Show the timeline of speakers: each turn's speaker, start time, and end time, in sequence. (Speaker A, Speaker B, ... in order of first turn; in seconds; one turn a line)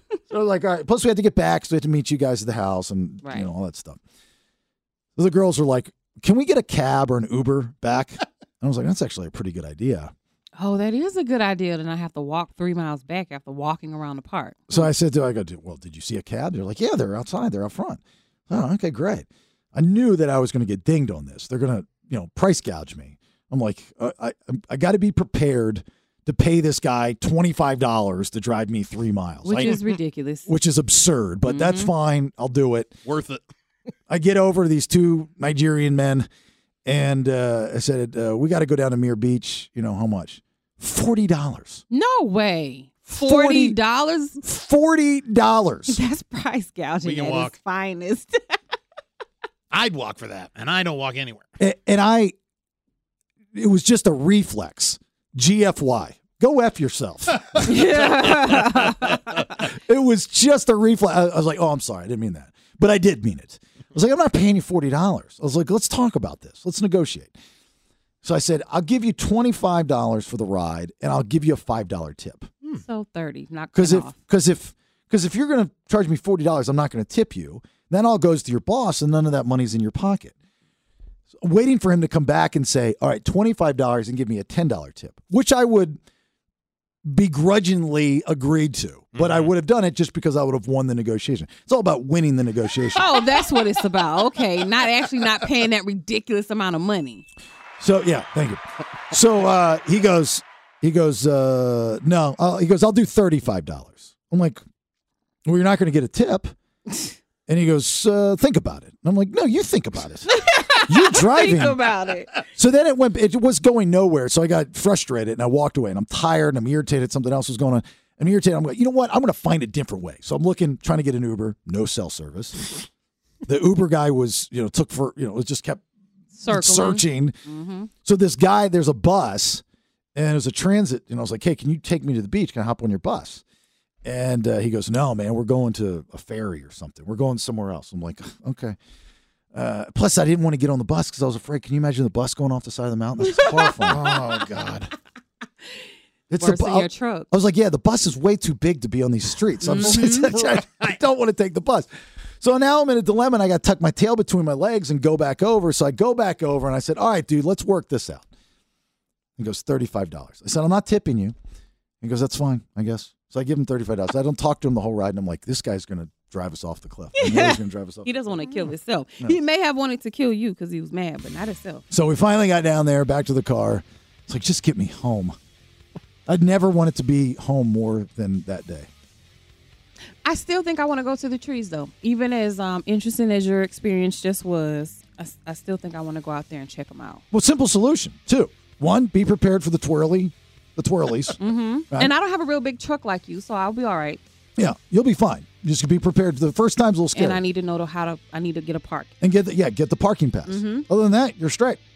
Speaker A: 0.3-4.0
Speaker B: 3.2-3.5
Speaker A: 5.2-10.1
Speaker B: 10.6-14.9
Speaker A: 14.7-29.8
Speaker B: 29.4-30.5
Speaker A: 30.4-32.9
Speaker B: 31.4-31.9
Speaker C: 33.0-33.4
Speaker A: 34.1-36.3
Speaker A: 36.9-41.8
Speaker B: 41.9-44.4
Speaker A: 43.0-43.8
Speaker A: 44.4-46.0
Speaker B: 45.9-48.6
Speaker C: 47.0-47.5
Speaker C: 49.7-51.5
Speaker A: 51.6-52.3
Speaker A: 53.5-58.0
Speaker B: 57.6-59.5
Speaker A: 59.8-67.3
Speaker A: 68.2-72.5
Speaker B: 72.8-74.2
Speaker A: 73.7-80.3
Speaker A: 81.4-86.0
Speaker A: 87.0-93.1
Speaker C: 89.1-89.5
Speaker B: 92.9-97.2
Speaker A: 97.8-104.6
Speaker A: 105.4-106.5
Speaker A: 107.5-110.3
Speaker B: 110.3-112.4
Speaker A: 110.8-111.8
Speaker A: 112.5-122.8
Speaker A: 123.4-125.8
Speaker B: 126.3-127.9
Speaker A: 126.5-127.3
Speaker A: 128.0-129.6
Speaker A: 130.1-133.4
Speaker A: 134.0-138.8
Speaker A: 139.5-144.1
Speaker C: 143.8-144.9
Speaker A: 146.3-151.9
Speaker B: 146.4-147.3
Speaker B: 149.6-150.3
Speaker C: 149.9-150.9
Speaker A: 152.4-158.3
Speaker A: 159.4-161.3
Speaker A: 162.0-168.5
Speaker B: 167.2-171.8
Speaker A: 171.9-175.3
Speaker A: 176.2-178.9
Speaker B: 180.2-187.2
Speaker A: 187.3-191.4
Speaker B: 191.4-194.2
Speaker A: 194.6-197.4
Speaker B: 197.1-199.1
Speaker A: 199.2-201.8
Speaker B: 200.5-200.9